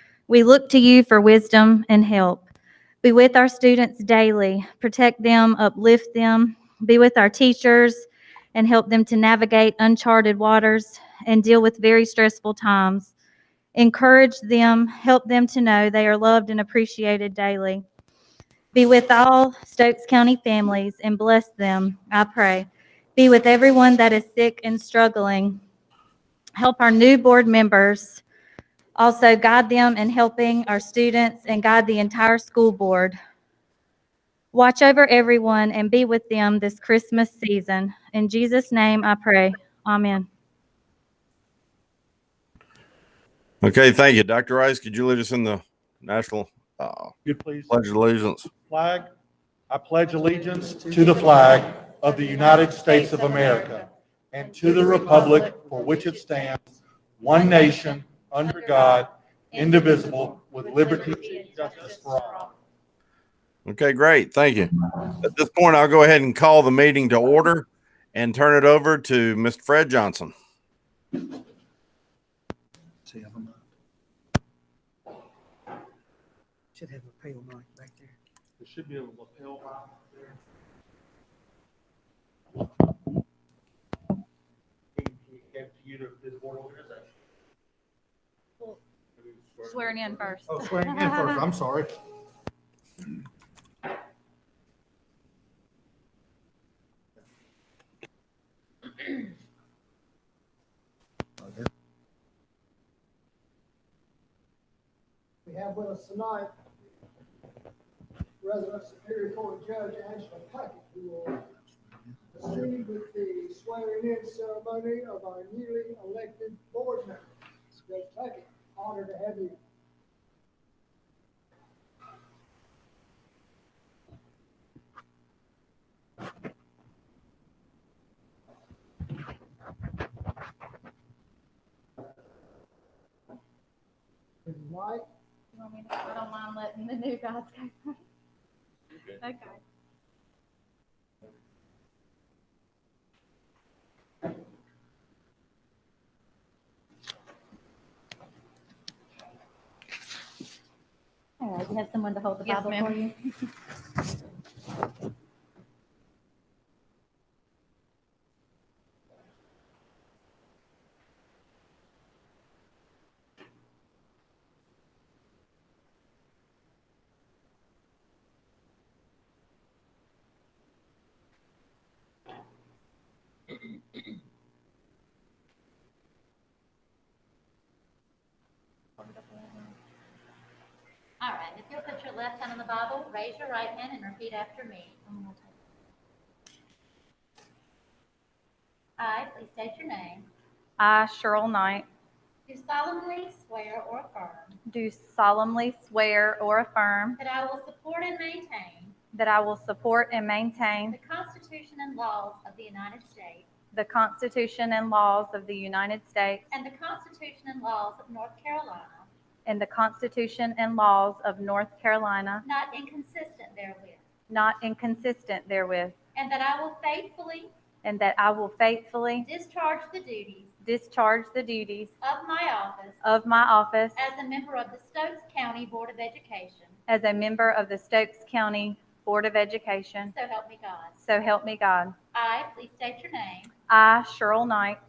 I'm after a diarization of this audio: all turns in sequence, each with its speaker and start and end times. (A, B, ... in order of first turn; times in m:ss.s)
0:00.3-0:02.4 A
0:03.0-0:13.1 A
0:13.7-0:17.8 A
0:18.7-0:25.6 A
0:26.6-0:28.2 A
0:29.0-0:33.2 A
0:34.5-0:40.3 A
0:43.6-0:47.1 B
0:47.2-0:47.8 C
0:47.7-0:48.5 B
0:48.5-0:49.1 C
0:49.7-1:02.5 C
0:52.0-0:53.9 A
0:54.4-0:56.2 A
0:58.4-1:02.5 A
1:03.6-1:10.3 B
1:16.7-1:18.1 D
1:18.6-1:20.1 C
1:25.0-1:27.0 C
1:29.2-1:30.4 C
1:29.6-1:31.5 A
1:30.7-1:31.2 D
1:45.4-1:46.6 E
1:48.4-1:51.4 E
1:52.3-1:59.6 E
2:14.4-2:15.1 E
2:15.5-2:18.0 A
2:19.2-2:19.6 A
2:31.4-2:33.1 F
2:32.4-2:33.0 A
2:59.1-2:59.7 A
3:01.2-3:05.0 F
3:05.1-3:05.4 A
3:09.0-3:10.3 F
3:10.8-3:11.8 A
3:12.5-3:14.6 F
3:14.7-3:17.2 A
3:17.2-3:19.0 F
3:19.1-3:21.0 A
3:20.9-3:23.5 F
3:23.7-3:26.5 A
3:26.5-3:29.1 F
3:29.4-3:32.4 A
3:32.4-3:34.0 F
3:34.3-3:35.9 A
3:36.1-3:37.5 F
3:37.8-3:39.2 A
3:39.2-3:40.5 F
3:40.6-3:41.9 A
3:42.0-3:43.0 F
3:43.0-3:44.0 A
3:44.0-3:46.8 F
3:46.9-3:50.1 A
3:50.1-3:51.0 F
3:51.0-3:51.9 A
3:52.1-3:53.5 F
3:53.7-3:54.8 A